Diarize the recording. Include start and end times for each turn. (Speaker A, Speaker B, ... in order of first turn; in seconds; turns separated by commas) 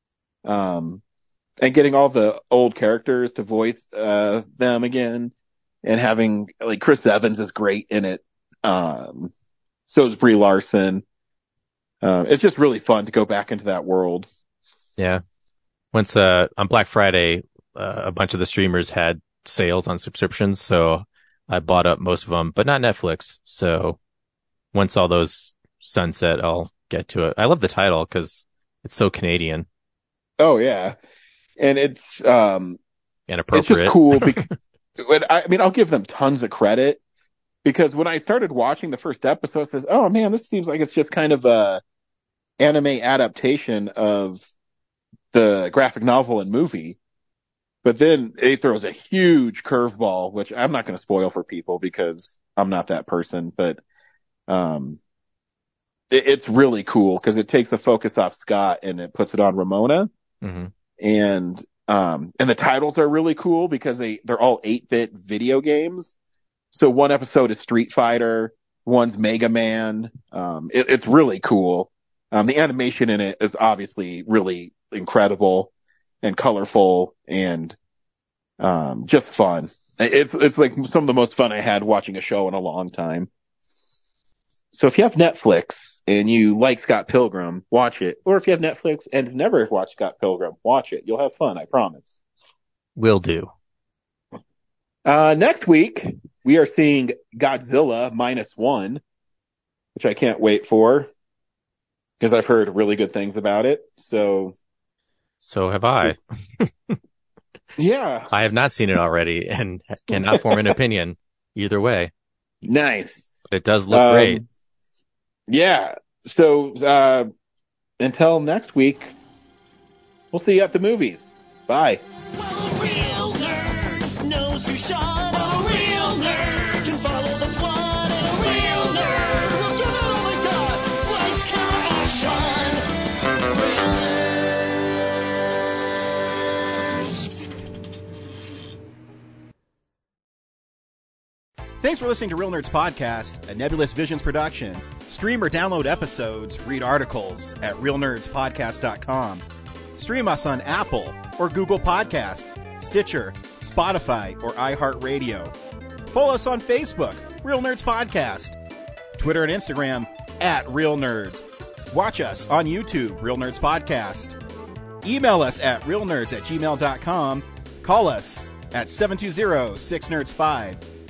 Speaker A: 0.4-1.0, Speaker A: 1.6-5.3, Speaker A: 5.8-9.3, Speaker A: 9.9-11.0, Speaker A: 12.0-14.3, Speaker B: 15.9-24.0, Speaker B: 24.7-29.6, Speaker A: 30.4-31.0, Speaker A: 31.6-32.8, Speaker B: 33.3-34.5, Speaker A: 33.5-34.5, Speaker A: 35.0-37.0, Speaker A: 37.6-41.8, Speaker A: 42.6-44.5, Speaker A: 45.3-47.0, Speaker A: 47.8-53.8, Speaker A: 54.5-55.0, Speaker A: 56.1-60.1, Speaker B: 60.4-60.7, Speaker A: 61.0-66.1, Speaker A: 66.7-77.8, Speaker A: 78.6-83.3, Speaker A: 84.7-92.2, Speaker B: 93.0-93.5, Speaker A: 95.0-99.0, Speaker A: 99.9-101.1, Speaker A: 102.2-104.5, Speaker B: 105.4-107.0, Speaker A: 107.8-108.3, Speaker B: 108.3-112.1, Speaker A: 110.3-110.6, Speaker A: 112.6-113.3, Speaker B: 113.5-114.4, Speaker A: 113.9-114.4, Speaker A: 115.5-117.3, Speaker A: 118.0-119.1, Speaker A: 120.3-122.0, Speaker C: 122.3-132.8, Speaker C: 133.5-134.2, Speaker C: 137.0-137.4, Speaker D: 141.8-149.4, Speaker D: 149.9-155.5, Speaker D: 156.1-158.6, Speaker D: 159.2-164.3, Speaker D: 165.0-170.8